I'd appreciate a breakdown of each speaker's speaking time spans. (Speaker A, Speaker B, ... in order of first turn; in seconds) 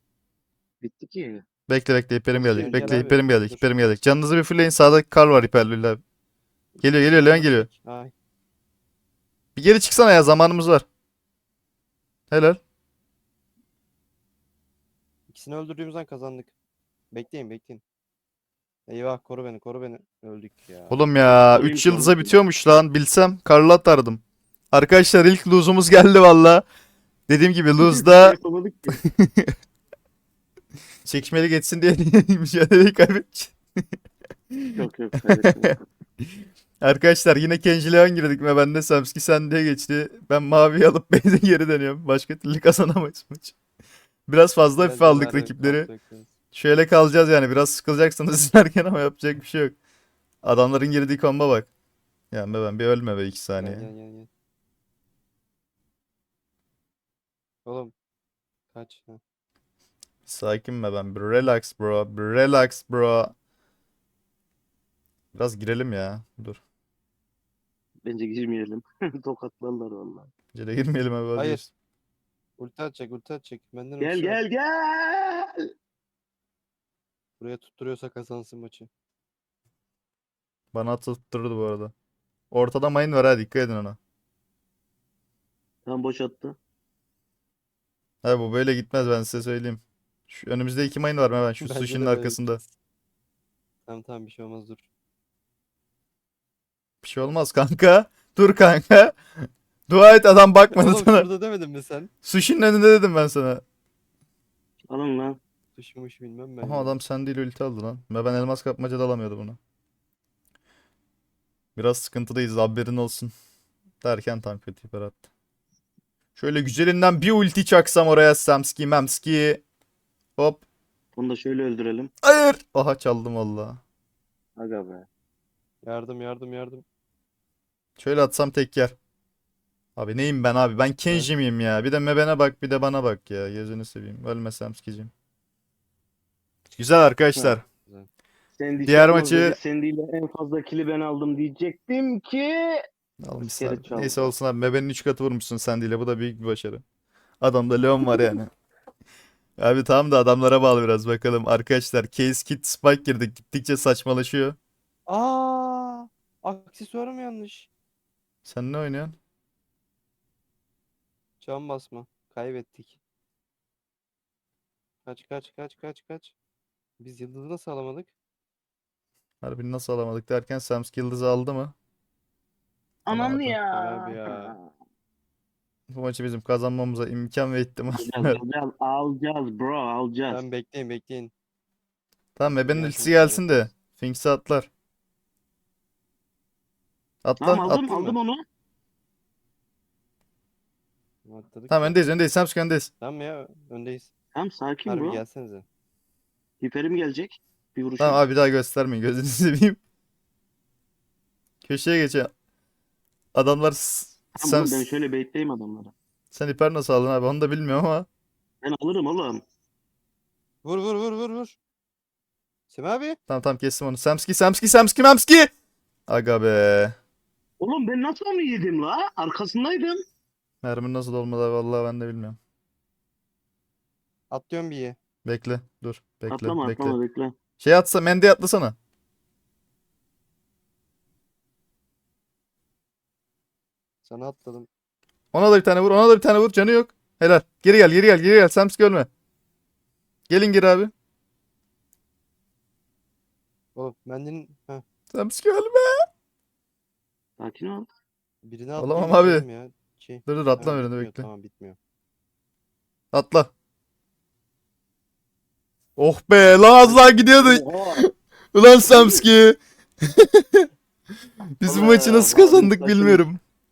Speaker A: 0.8-1.4, 2.6-3.0, 21.3-22.4, 27.8-29.0, 34.8-35.9, 68.0-70.3, 74.0-75.7, 85.9-86.6, 104.9-105.4, 121.2-122.1, 124.6-125.1, 138.6-142.8, 143.4-144.3, 173.1-174.7, 177.9-180.4, 187.4-188.4, 194.3-195.2, 196.6-198.2, 204.4-205.9, 208.6-209.4, 217.6-220.0, 226.3-227.3, 247.4-247.9, 256.8-258.0, 258.8-259.2, 261.6-263.3
Speaker B: 1.7-6.0, 6.8-7.7, 9.6-10.9, 12.3-12.6, 20.9-26.6, 27.3-28.4, 29.0-29.6, 31.1-33.6, 34.5-35.8, 36.8-43.5, 44.3-45.9, 46.5-49.8, 50.4-51.7, 52.3-53.9, 60.3-63.4, 65.3-66.6, 70.5-71.7, 80.7-81.9, 82.5-84.0, 88.2-92.6, 97.0-101.3, 102.2-103.6, 106.6-109.6, 111.8-113.3, 114.0-115.2, 116.4-119.6, 120.4-120.6, 122.2-123.8, 128.0-129.0, 130.0-135.1, 136.8-137.7, 138.9-139.6, 143.2-146.8, 147.4-148.5, 149.6-154.6, 158.5-159.2, 169.4-171.8, 173.1-173.6, 175.9-178.4, 182.4-184.7, 187.2-187.9, 191.7-192.9, 198.0-199.8, 201.6-202.3, 203.3-204.8, 206.3-208.1, 213.3-215.5, 216.1-217.0, 220.6-222.4, 225.2-227.0, 227.6-228.8, 235.3-239.1, 240.3-240.9, 245.1-246.0, 248.8-249.4, 250.3-251.3, 253.1-253.5, 256.0-260.7, 261.6-263.4
Speaker C: 2.3-3.7, 6.8-8.1, 15.3-16.5, 17.1-17.8, 18.9-21.0, 44.8-46.3, 53.6-54.3, 57.6-57.9, 58.7-59.2, 71.4-71.6, 72.6-74.4, 77.4-78.9, 91.6-92.4, 93.9-94.8, 100.7-102.1, 105.8-107.0, 125.8-126.8, 137.4-138.1, 155.1-157.7, 161.4-163.0, 165.1-166.3, 167.0-168.1, 173.7-174.6, 180.3-181.3, 182.6-183.5, 187.8-188.2, 191.2-192.0, 193.0-194.1, 194.9-195.7, 210.6-211.6, 212.7-213.2, 224.3-225.0, 234.0-234.7, 243.8-244.8, 248.4-251.8